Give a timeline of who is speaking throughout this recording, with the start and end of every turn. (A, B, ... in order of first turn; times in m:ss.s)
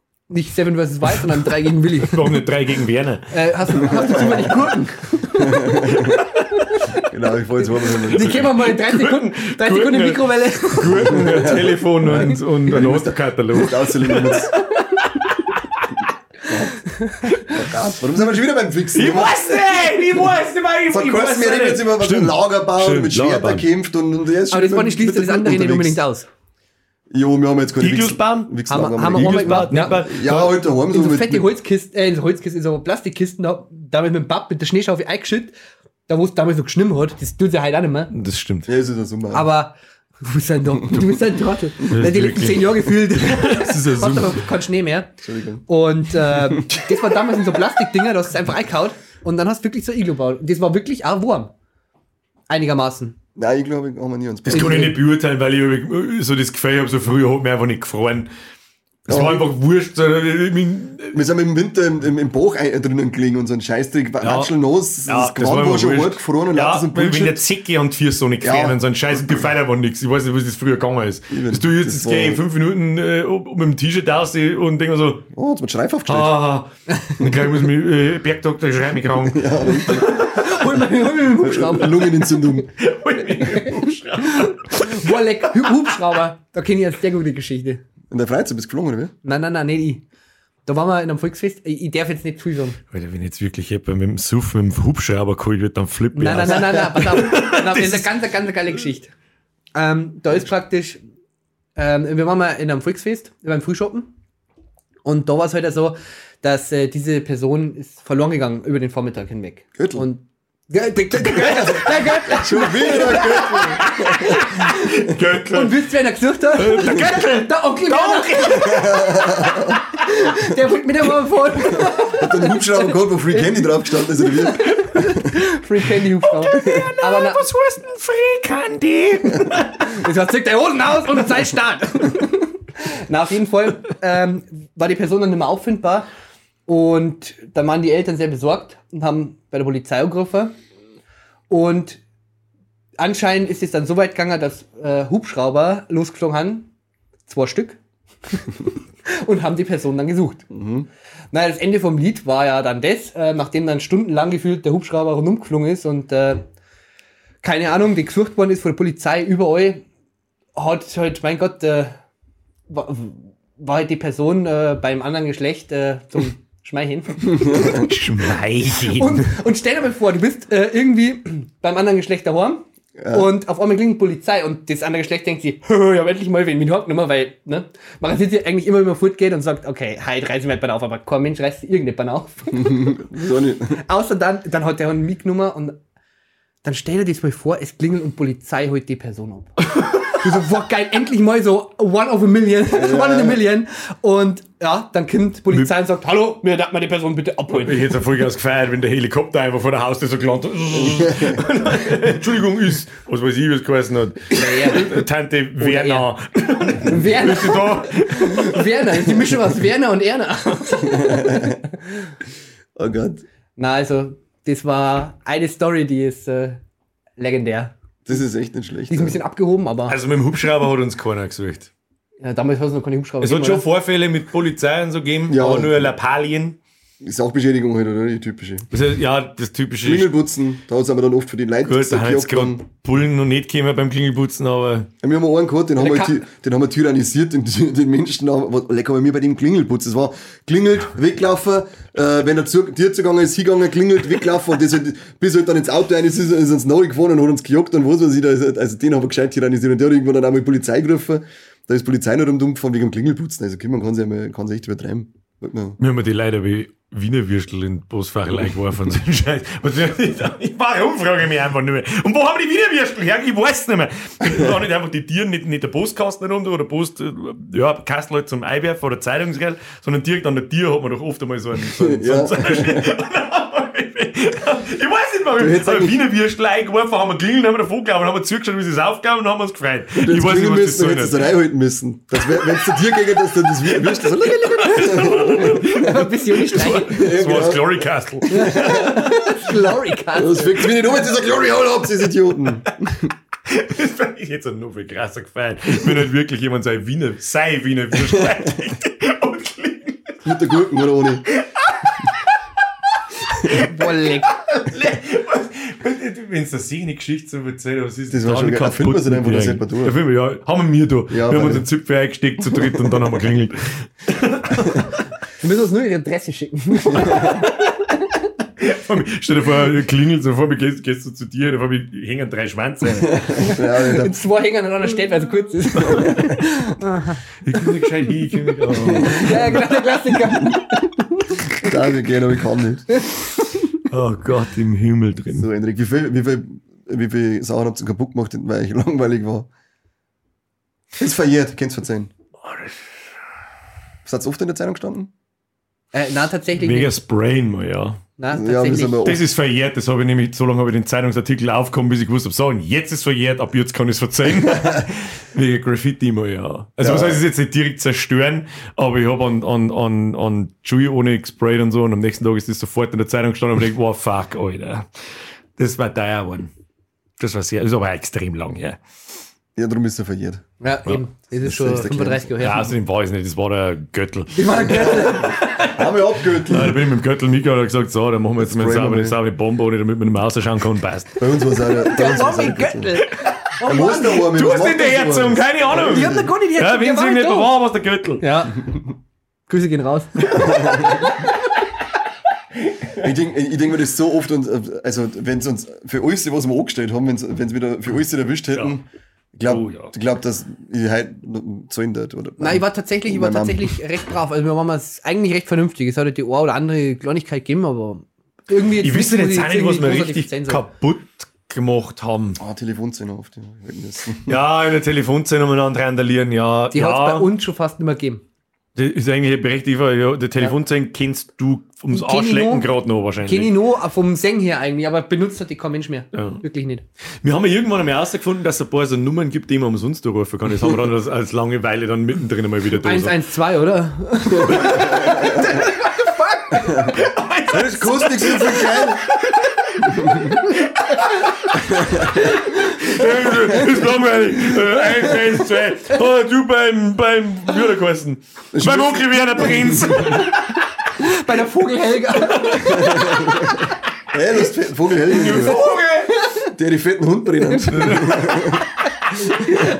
0:00.3-0:02.4 A
0:02.0-0:03.3 B
0:03.3-0:07.0 A
0:03.9-0:04.4 C
0:05.4-0:06.2 C
0:07.0-0:08.5 C
0:07.6-0:11.3 A
0:08.1-0:15.9 B
0:11.0-0:14.5 C
0:16.5-0:16.7 C
0:16.9-0:17.3 A
0:17.3-0:17.7 B
0:17.5-0:19.6 C
0:18.9-0:23.7 B
0:20.9-0:26.0 C
0:24.5-0:26.3 A
0:27.1-0:31.5 C
0:27.8-0:30.6 B
0:28.7-0:30.0 A
0:30.9-0:35.5 A
0:36.1-0:38.1 A
0:38.1-0:38.7 B
0:38.7-0:39.5 C
0:39.3-0:45.1 A
0:41.9-0:44.4 B
0:45.2-0:45.6 C
0:45.7-0:51.5 A
0:52.5-0:53.2 A
0:53.4-0:54.9 C
0:54.5-0:58.3 B
0:54.5-0:54.9 A
0:59.0-1:01.2 B
0:59.1-0:59.5 C
1:01.1-1:07.4 C
1:04.2-1:04.5 B
1:05.0-1:15.3 B
1:08.4-1:08.8 C
1:11.3-1:12.4 C
1:15.3-1:16.3 C
1:16.1-1:20.7 B
1:19.3-1:20.2 C
1:19.8-1:22.5 A
1:21.2-1:22.7 C
1:22.8-1:25.2 B
1:23.4-1:27.8 A
1:28.1-1:29.1 C
1:29.2-1:30.0 A
1:30.6-1:32.8 A
1:32.9-1:38.1 B
1:36.1-1:39.1 A
1:36.5-1:36.8 C
1:39.7-1:41.0 A
1:41.8-1:44.1 A
1:45.0-2:07.5 A
1:49.8-1:50.0 C
1:51.2-1:54.4 C
1:53.1-1:55.8 B
1:56.5-1:59.0 B
1:58.5-1:59.8 C
2:01.7-2:05.4 C
2:06.2-2:10.0 B
2:09.8-2:16.1 A
2:16.7-2:20.5 A
2:21.5-2:22.0 A
2:23.0-2:26.7 A
2:27.3-2:30.5 A
2:30.5-2:30.8 C
2:31.3-2:36.4 A
2:37.4-2:39.8 A
2:40.6-2:41.9 A
2:42.7-2:48.0 A
2:47.4-2:49.3 B
2:48.7-3:03.0 A
2:53.0-2:53.3 C
3:02.5-3:03.8 C
3:03.7-3:05.8 A
3:06.6-3:18.0 A
3:09.7-3:10.1 B
3:12.7-3:13.4 C
3:17.5-3:28.8 B
3:20.8-3:21.4 C
3:24.3-3:25.0 A
3:25.6-3:26.1 A
3:26.8-3:31.7 A
3:30.8-3:31.6 C
3:32.8-3:33.2 C
3:33.6-3:36.6 A
3:37.2-3:37.7 A
3:38.0-3:39.2 C
3:38.9-3:40.0 A
3:39.9-3:41.7 B
3:42.2-3:43.6 A
3:43.2-3:46.6 B
3:45.3-3:45.9 C
3:47.0-3:48.7 C
3:48.7-3:50.1 B
3:49.8-3:52.6 C
3:51.6-3:54.9 B
3:55.0-4:15.8 C
3:55.8-3:56.2 A
4:15.8-4:41.3 B
4:31.7-4:32.9 C
4:35.4-4:36.0 C
4:40.0-4:45.8 C
4:43.6-4:49.1 B
4:44.9-4:47.2 A
4:46.9-4:49.2 C
4:48.3-4:50.6 A
4:50.1-4:53.1 C
4:53.5-5:00.2 B
5:00.2-5:01.2 C
5:01.3-5:02.1 B
5:03.3-5:15.0 B
5:03.5-5:04.3 A
5:08.1-5:10.0 C
5:11.1-5:11.7 C
5:12.5-5:13.0 C
5:15.4-5:17.6 A
5:16.9-5:17.4 C
5:18.6-5:23.3 B
5:22.9-5:24.2 C
5:23.4-5:27.6 A
5:25.8-5:26.1 B
5:25.8-5:26.5 C
5:27.4-5:29.6 B
5:28.7-5:29.6 C
5:28.8-5:31.7 A
5:30.3-5:30.6 C
5:31.6-5:32.9 C
5:33.9-5:35.5 B
5:35.3-5:39.5 C
5:41.0-5:42.1 C
5:42.5-5:42.7 B
5:44.0-5:45.1 C
5:45.9-5:46.9 A
5:46.6-5:48.0 B
5:48.2-5:49.1 A
5:48.3-5:49.2 C
5:49.0-6:04.9 B
5:56.8-5:57.2 C
6:05.6-6:06.5 B
6:07.2-6:08.8 B
6:09.6-6:10.4 C
6:10.6-6:12.7 A
6:11.4-6:12.4 C
6:12.4-6:15.8 B
6:14.3-6:15.3 A
6:14.6-6:16.8 C
6:16.4-6:21.2 B
6:18.4-6:19.2 C
6:21.2-6:23.0 C
6:21.8-6:24.3 A
6:23.6-6:26.3 C
6:24.1-6:28.2 B
6:25.7-6:27.6 A
6:28.2-6:28.7 A
6:29.5-6:31.3 A
6:30.4-6:31.1 C
6:32.9-6:38.8 C
6:39.3-6:43.7 C
6:39.4-6:39.9 B
6:42.4-6:50.6 A
6:48.8-6:52.4 B
6:52.4-6:54.4 C
6:54.2-6:57.3 B
6:56.7-6:58.2 A
6:58.8-7:03.5 B
7:01.9-7:02.7 A
7:03.2-7:06.8 A
7:06.1-7:06.4 B
7:07.2-7:13.2 B
7:12.8-7:16.9 A
7:14.4-7:15.5 C
7:14.4-7:30.4 B
7:17.5-7:19.0 C
7:19.9-7:20.4 C
7:21.6-7:22.3 C
7:28.5-7:30.2 C
7:30.0-7:33.5 A
7:32.3-7:32.8 B
7:32.6-7:35.6 C
7:35.1-7:36.2 B
7:36.1-7:36.4 A
7:36.4-7:38.7 C
7:37.7-7:38.6 B
7:39.3-7:39.7 A